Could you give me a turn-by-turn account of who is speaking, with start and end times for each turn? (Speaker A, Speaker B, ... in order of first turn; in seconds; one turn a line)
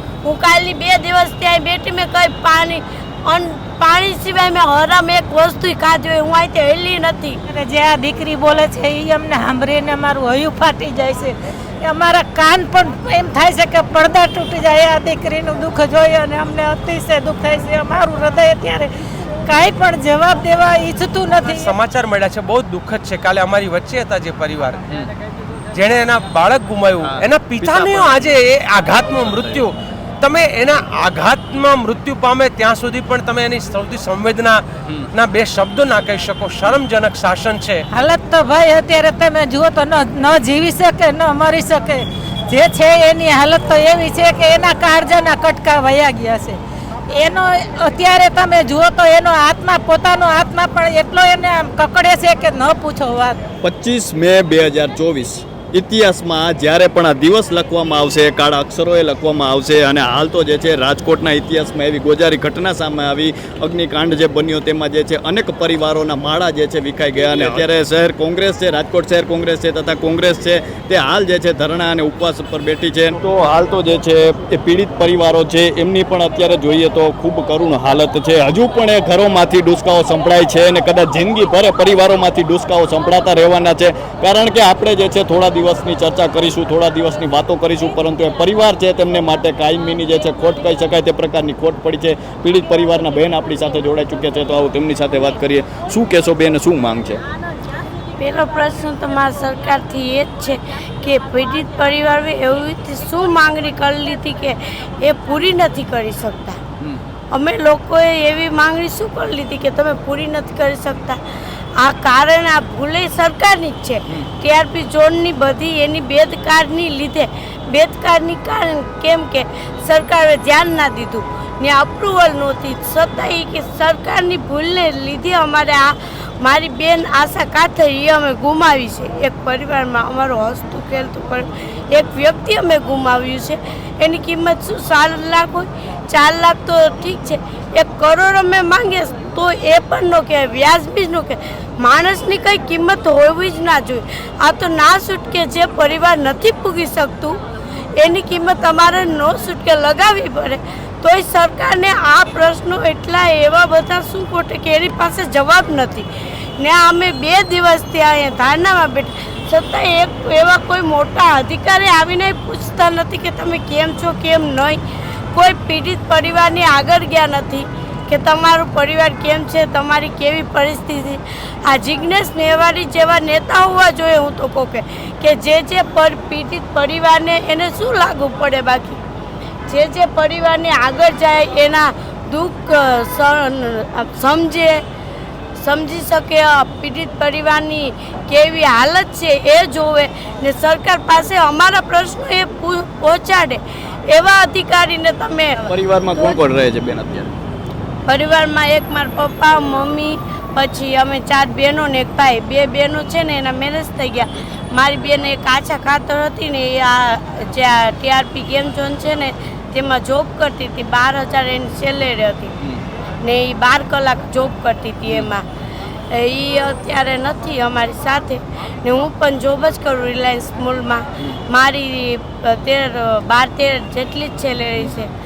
Speaker A: 0.2-7.4
Speaker B: 7.5-18.9
Speaker B: 19.5-21.7
Speaker C: 21.4-24.8
Speaker C: 25.7-37.9
Speaker D: 27.0-28.4
Speaker B: 37.9-46.6
Speaker B: 47.1-53.4
Speaker D: 53.6-97.2
Speaker A: 98.2-106.6
Speaker A: 107.3-111.2
Speaker A: 111.8-147.4
Speaker A: 148.0-164.8
Speaker A: 165.3-179.0
Speaker A: 179.7-184.8
Speaker A: 185.6-196.4
Speaker D: 195.7-197.3
Speaker A: 198.1-212.5
Speaker A: 213.2-215.4
Speaker A: 216.1-225.1